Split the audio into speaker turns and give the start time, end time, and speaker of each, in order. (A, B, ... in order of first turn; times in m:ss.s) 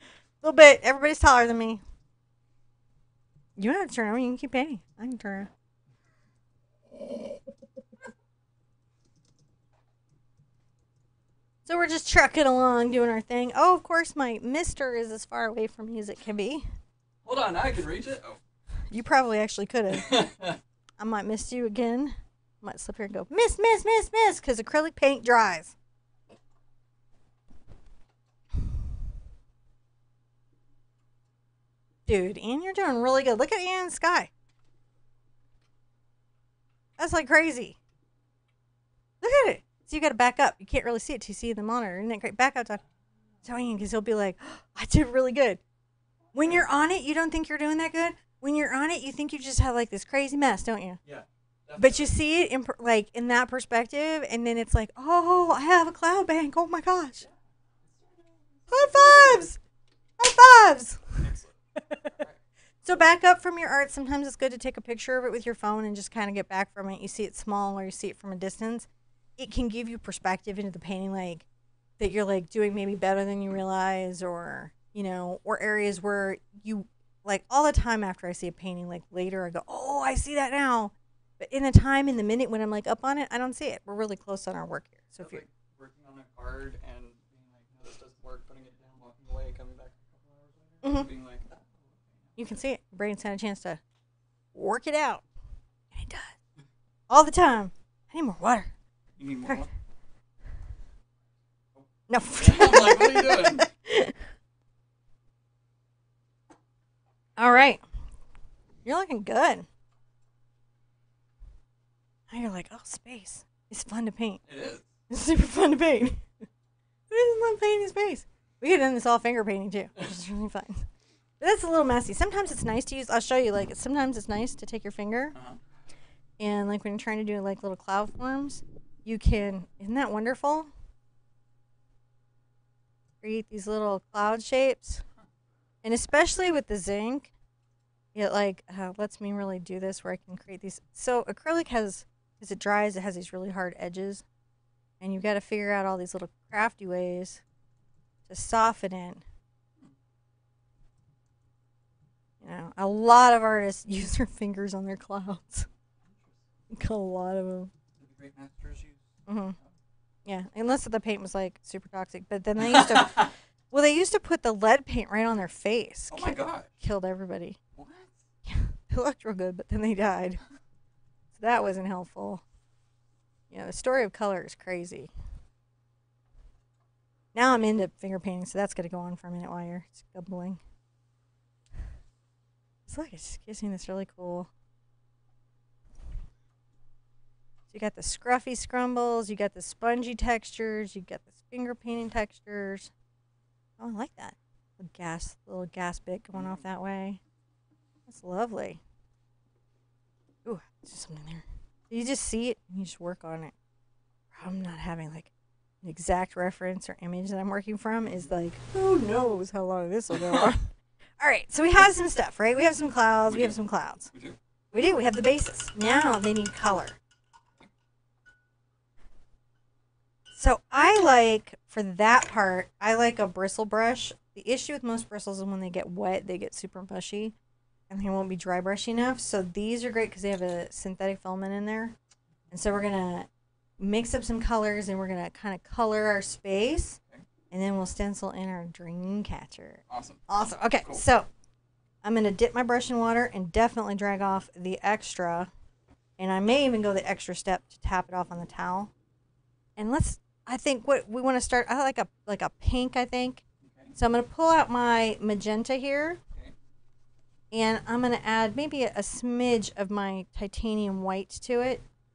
0:00.4-0:01.8 A
0:03.6-0:05.5 A
0:11.6-0:16.7 A
0:17.2-0:18.4 B
0:18.9-0:20.1 A
0:19.9-0:20.6 B
0:21.0-0:25.7 A
0:32.0-0:34.3 A
0:37.0-0:37.8 A
0:39.2-0:42.8 A
0:43.4-0:45.6 A
0:46.3-0:51.0 A
0:51.0-0:52.1 B
0:51.8-0:57.2 A
0:57.8-0:59.5 B
0:58.7-0:59.6 A
1:00.2-1:01.2 A
1:01.2-1:02.4 B
1:01.8-1:02.1 A
1:02.8-1:11.4 A
1:12.0-1:25.4 A
1:25.2-1:32.5 B
1:30.8-1:31.1 A
1:32.4-1:33.8 A
1:34.5-1:35.2 A
1:35.9-1:36.4 A
1:37.1-1:38.7 A
1:39.2-1:39.7 B
1:42.1-1:44.1 A
1:42.4-1:43.6 B
1:47.4-1:47.8 A
1:48.8-1:49.7 A
1:52.3-1:54.4 A
1:54.5-1:54.9 B
1:55.1-1:56.3 A
1:57.1-2:00.9 A
2:01.4-2:05.4 A
2:05.3-2:05.6 B
2:06.4-2:10.7 A
2:13.2-2:15.0 A
2:15.8-2:17.3 A
2:18.1-2:24.2 A
2:25.0-2:27.4 A
2:28.3-2:29.2 A
2:32.4-2:35.7 A
2:36.0-2:36.4 B
2:36.7-2:37.7 A
2:38.0-2:39.0 B
2:39.3-2:39.6 A
2:40.2-2:47.6 A
2:42.7-2:43.3 B
2:46.1-2:46.7 B
2:47.8-2:48.1 B
2:48.4-2:50.4 A
2:51.3-2:52.4 A
2:53.5-2:55.1 A
2:57.3-3:00.6 A
3:02.9-3:04.5 A
3:07.7-3:12.9 A
3:13.8-3:17.2 A
3:16.3-3:16.6 B
3:18.1-3:18.8 A
3:20.4-3:23.5 A
3:24.3-3:25.3 A
3:25.8-3:34.1 A
3:30.1-3:30.4 B
3:33.3-3:33.6 B
3:34.1-3:34.4 B
3:34.7-3:37.0 A
3:40.3-3:47.3 A
3:47.9-3:51.9 A
3:52.5-3:53.3 A
3:53.8-3:57.0 A
3:57.5-4:01.3 A
3:59.9-4:00.3 B
4:02.0-4:05.5 A
4:06.2-4:08.9 A
4:09.8-4:13.4 A
4:13.6-4:13.9 B
4:13.9-4:16.2 A
4:17.5-4:21.8 A